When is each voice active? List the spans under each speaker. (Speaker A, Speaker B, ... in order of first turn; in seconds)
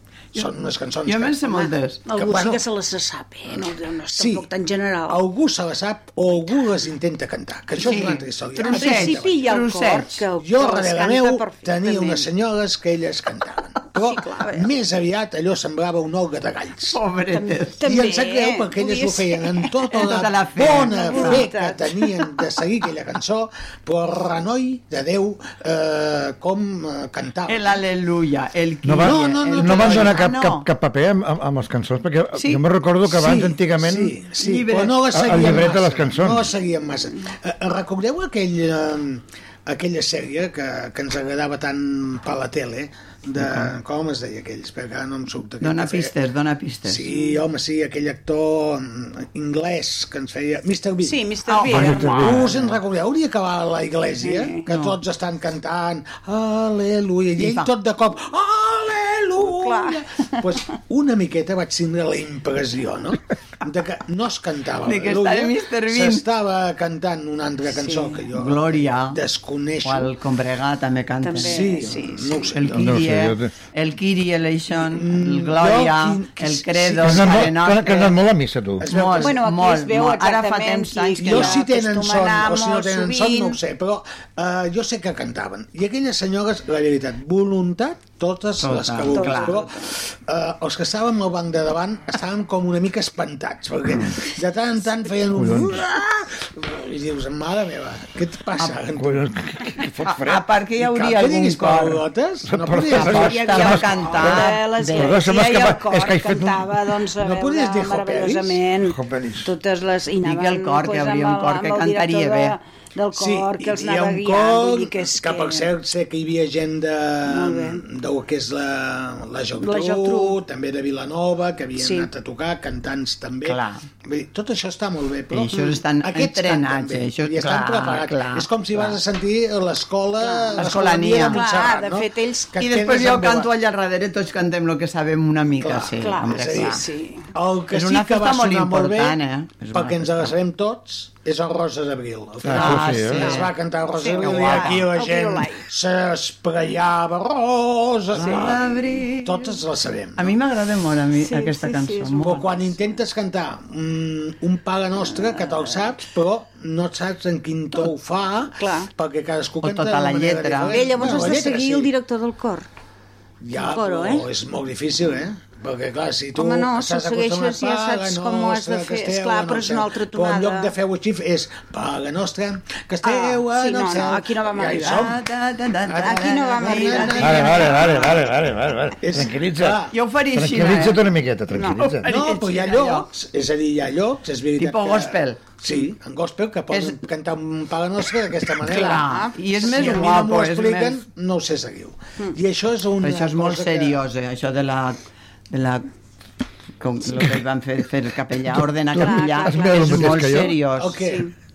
Speaker A: 0.3-1.4, 2.1-2.6, 4.1-4.5, 5.1-9.5, 10.4-17.0, 17.8-27.7, 29.0-30.3, 33.1-46.1, 46.9-70.1, 71.4-73.0, 74.8-77.5, 78.8-79.4, 81.2-99.2, 100.8-104.1, 107.2-108.6, 113.1-133.5, 135.6-139.2, 139.7-148.6, 149.2-150.4, 152.2-161.9, 163.4-175.2, 175.9-178.2, 179.0-179.9, 182.0-189.0, 189.6-194.0, 200.7-201.3
Speaker B: 1.0-2.0, 7.8-10.2, 16.9-17.8, 19.9-21.5, 27.5-30.7, 32.4-32.6, 34.4-35.7, 43.4-43.7, 45.6-47.0, 51.5-52.3, 54.7-54.9, 57.4-57.7, 64.8-66.2, 68.3-69.2, 69.8-71.7, 72.5-78.2, 78.8-81.6, 88.6-89.7, 100.0-102.0, 102.9-105.2, 110.2-112.5, 123.4-123.8, 125.3-129.0, 130.6-131.4, 132.6-136.8, 137.7-140.3, 142.5-143.5, 144.1-144.9, 148.1-149.6, 150.2-152.5, 159.6-161.4, 174.8-178.2, 179.9-181.0, 181.9-183.1, 184.6-185.4, 186.7-186.9, 188.6-191.0, 193.0-195.8, 196.8-201.0
Speaker C: 1.5-5.2, 8.6-12.3, 13.9-14.8, 17.3-19.8, 20.7-22.4, 51.0-52.5, 54.2-54.6, 59.4-60.4, 67.8-68.2, 71.2-72.5, 79.1-83.6, 89.1-89.9, 103.2-115.7, 117.2-117.8, 119.6-120.4, 121.8-122.1, 130.2-132.5, 136.0-137.3, 143.9-145.7, 151.2-152.6, 155.1-155.9, 158.6-158.9, 160.7-162.7, 163.5-164.3, 166.3-170.7, 173.0-175.1, 176.0-177.8, 181.5-181.9, 188.9-190.0, 199.0-200.3, 200.9-201.3
Speaker D: 28.8-34.1, 35.1-36.5, 51.7-52.5, 72.7-73.5, 77.0-78.9, 95.3-95.8, 98.9-100.5, 102.5-106.9, 108.8-109.5, 142.4-143.3, 177.2-182.1, 198.5-200.6